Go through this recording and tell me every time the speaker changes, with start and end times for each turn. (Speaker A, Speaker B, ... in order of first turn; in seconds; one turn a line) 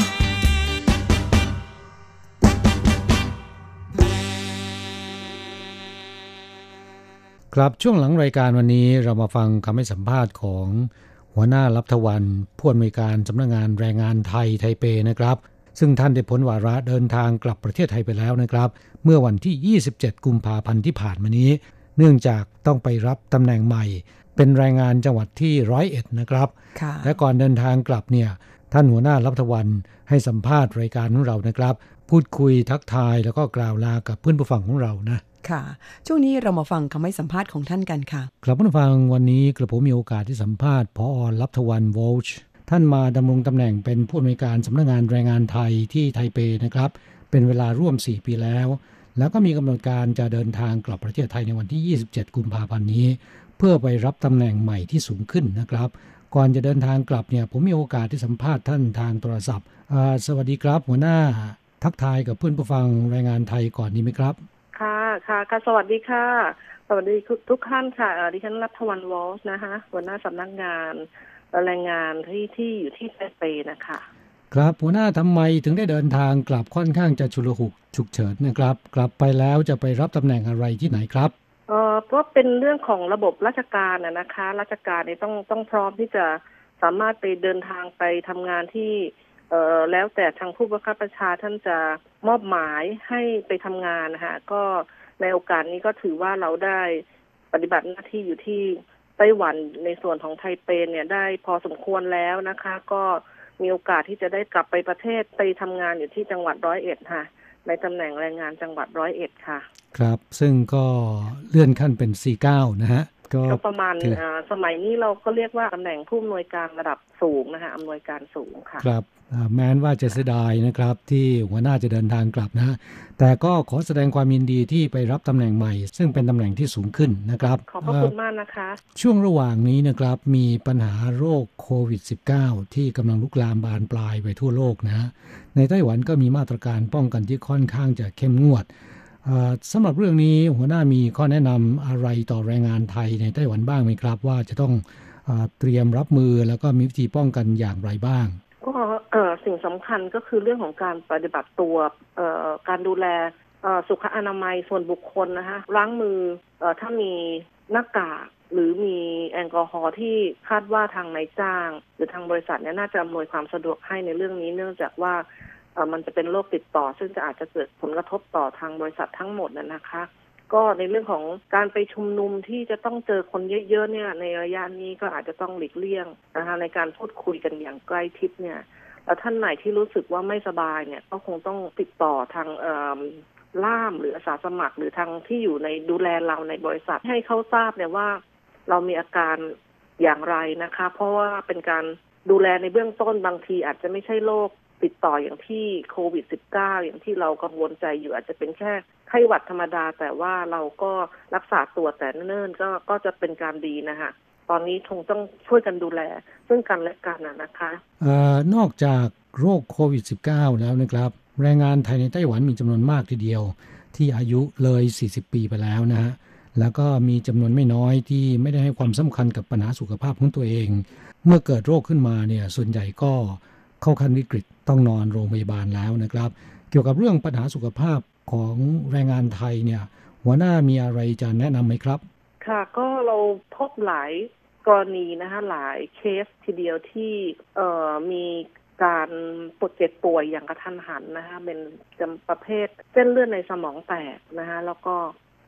Speaker A: 7.5-35.2
Speaker B: 26.8-27.1
Speaker B: 35.4-38.3
Speaker A: 38.4-64.4
Speaker C: 64.8-74.1
Speaker A: 74.5-81.3
Speaker C: 81.7-109.7
Speaker A: 109.9-114.2
Speaker C: 113.5-118.8
Speaker A: 118.8-128.1
Speaker C: 127.6-128.8
Speaker A: 128.9-138.7
Speaker A: 139.2-148.4
Speaker C: 148.6-165.2
Speaker C: 165.8-207.8
Speaker A: 208.0-232.0
Speaker C: 232.4-245.1